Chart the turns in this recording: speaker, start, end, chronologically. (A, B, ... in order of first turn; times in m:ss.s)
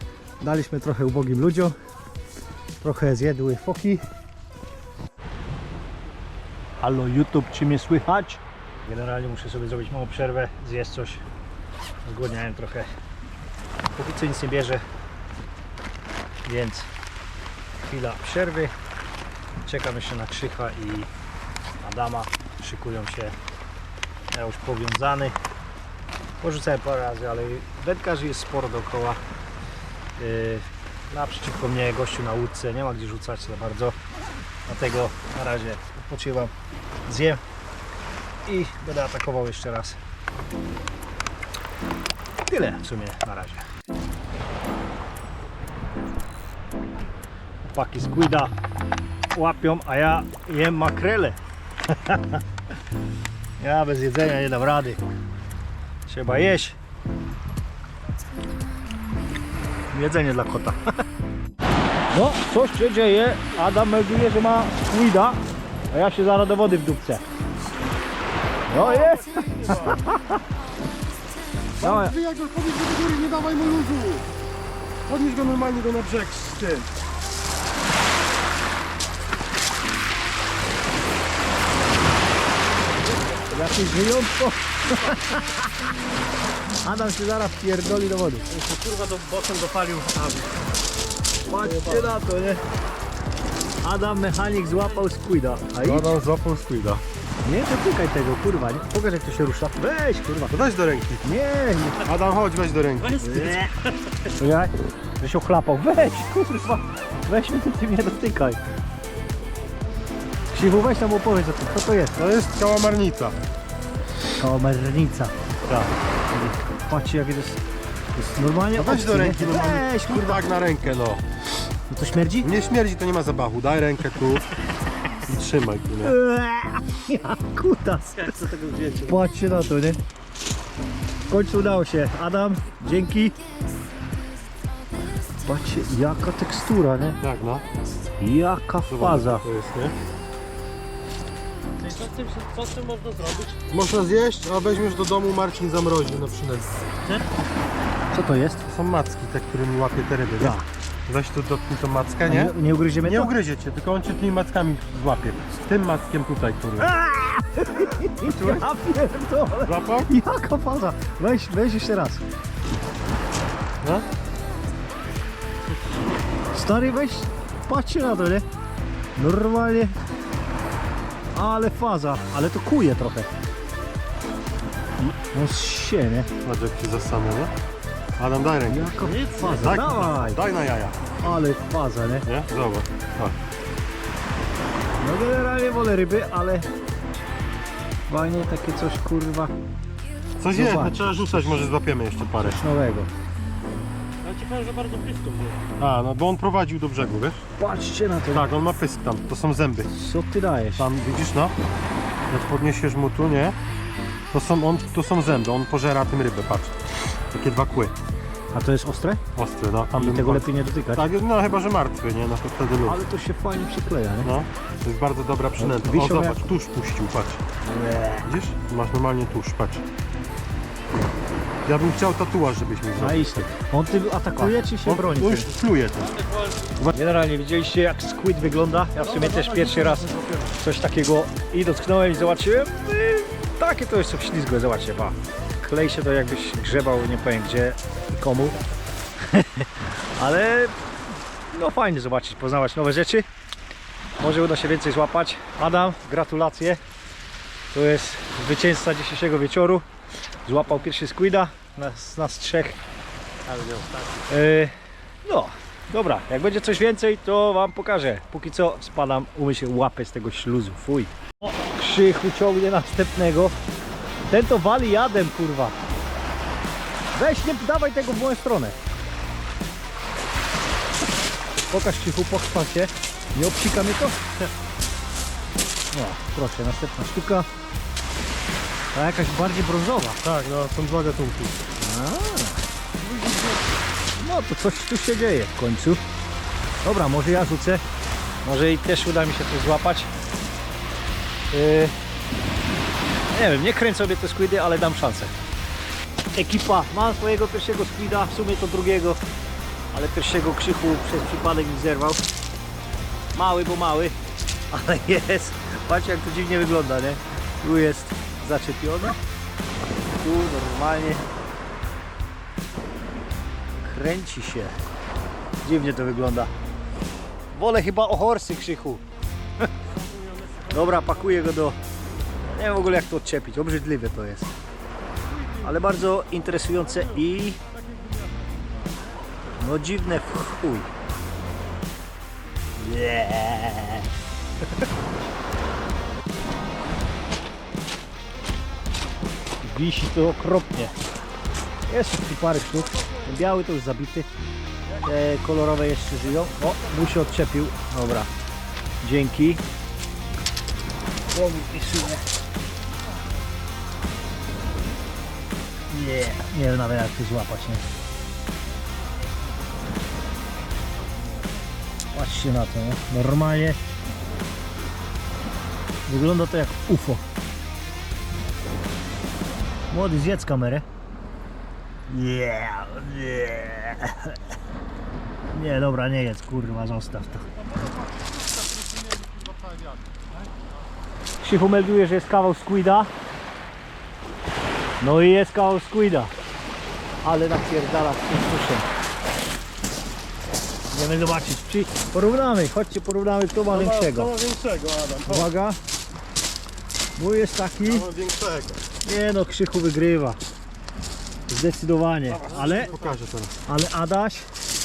0:00.4-0:01.8 A
0:02.8-0:04.0 A
0:06.8-0:11.2 A
0:12.0-0:12.9 A
0:14.0-0:14.8 A
0:16.4-0:16.9 A
0:17.8-0:18.7 A
0:19.6-0:21.1 A
0:21.8-0:23.4 A
0:24.3-0:25.4 A
0:26.4-0:29.2 A
0:30.2-0:34.0 A
0:34.7-0:36.5 A
0:37.1-0:37.4 A
0:38.4-0:40.0 A
0:42.5-0:43.7 A
0:47.7-0:48.5 A
0:49.3-0:52.4 A
0:53.6-0:55.0 A
0:56.1-0:56.8 A
0:59.9-1:00.8 A
1:02.1-1:05.4 A
1:05.9-1:07.2 A
1:08.7-1:10.4 A
1:08.7-1:10.1 B
1:11.8-1:12.1 A
1:11.8-1:14.3 B
1:15.1-1:16.9 B
1:23.4-1:25.7 A
1:26.8-1:28.5 A
1:28.5-1:30.6 B
1:31.5-1:32.6 A
1:31.5-1:32.1 B
1:33.8-1:36.2 A
1:35.8-1:37.0 B
1:37.4-1:40.6 A
1:40.5-1:41.2 B
1:41.2-1:42.1 A
1:42.0-1:43.4 B
1:43.2-1:48.6 A
1:50.5-1:52.2 A
1:52.2-1:53.4 B
1:54.4-1:57.6 A
1:58.2-2:00.4 A
1:58.8-2:01.2 B
2:01.9-2:02.5 A
2:02.4-2:04.5 B
2:05.2-2:06.2 B
2:06.0-2:10.0 A
2:08.4-2:09.1 B
2:11.3-2:13.4 A
2:15.4-2:17.2 A
2:17.2-2:17.6 B
2:18.2-2:19.4 A
2:18.9-2:20.0 B
2:21.8-2:23.5 C
2:23.5-2:26.8 B
2:28.1-2:28.6 A
2:28.6-2:36.9 B
2:30.4-2:30.7 A
2:32.2-2:33.3 A
2:36.8-2:42.2 A
2:38.2-2:38.6 B
2:39.6-2:40.1 B
2:46.5-2:48.4 A
2:49.2-2:50.0 A
2:51.4-2:53.3 A
2:55.0-2:56.3 A
2:56.4-2:57.5 B
2:58.2-3:01.0 B
2:58.7-3:00.4 A
3:01.2-3:02.3 A
3:02.3-3:03.4 B
3:05.0-3:06.7 A
3:08.1-3:09.5 A
3:10.4-3:12.6 B
3:10.5-3:11.7 A
3:12.4-3:13.1 A
3:14.2-3:15.7 C
3:15.8-3:17.5 B
3:17.6-3:18.5 A
3:18.3-3:19.9 B
3:19.9-3:20.9 A
3:20.8-3:21.6 B
3:22.3-3:23.6 B
3:24.3-3:27.9 B
3:28.5-3:29.2 A
3:29.4-3:33.0 B
3:30.0-3:31.1 A
3:32.8-3:34.3 A
3:34.2-3:37.4 B
3:35.6-3:36.4 A
3:37.7-3:38.3 A
3:38.2-3:39.8 B
3:41.7-3:43.5 B
3:43.0-3:45.5 A
3:44.4-3:46.2 B
3:46.8-3:58.6 A
3:49.0-3:50.5 B
3:59.2-4:00.8 A
4:01.5-4:03.3 A
4:04.2-4:06.8 A
4:07.7-4:09.8 A
4:10.5-4:12.8 A
4:13.5-4:14.2 B
4:14.3-4:14.7 A
4:15.2-4:23.6 A
4:24.3-4:25.8 A
4:27.1-4:28.8 A
4:31.7-4:34.3 A
4:35.9-4:37.5 A
4:38.9-4:40.2 A
4:40.2-4:41.6 B
4:41.8-4:42.6 A
4:43.0-4:43.6 B
4:44.2-4:46.0 A
4:46.8-4:47.8 A
4:48.4-4:50.1 A
4:51.5-4:52.0 A
4:53.3-4:55.3 A
4:56.3-4:59.2 A
4:59.9-5:02.2 A
5:03.4-5:04.2 A
5:04.7-5:09.2 A
5:10.1-5:11.3 A
5:13.8-5:14.8 A
5:15.6-5:16.5 A
5:17.5-5:19.0 A
5:20.1-5:20.7 B
5:20.7-5:21.8 A
5:22.5-5:24.5 A
5:25.6-5:27.6 A
5:29.6-5:30.9 A
5:32.8-5:34.1 A
5:39.6-5:41.0 A
5:41.9-5:44.3 A
5:45.0-5:48.3 A
5:49.0-5:49.6 A
5:51.3-5:52.2 A
5:55.9-5:57.8 A
6:02.1-6:03.8 A
6:06.1-6:07.2 A
6:09.9-6:10.9 A
6:12.1-6:14.4 A
6:15.5-6:17.4 A
6:17.6-6:20.2 B
6:21.4-6:23.1 A
6:25.0-6:26.3 A
6:27.2-6:28.9 A
6:30.9-6:34.3 A
6:33.7-6:35.5 B
6:35.3-6:35.8 A
6:37.2-6:38.1 A
6:37.8-6:38.8 B
6:39.0-6:40.4 A
6:41.5-6:42.9 A
6:42.4-6:43.5 B
6:43.7-6:44.5 A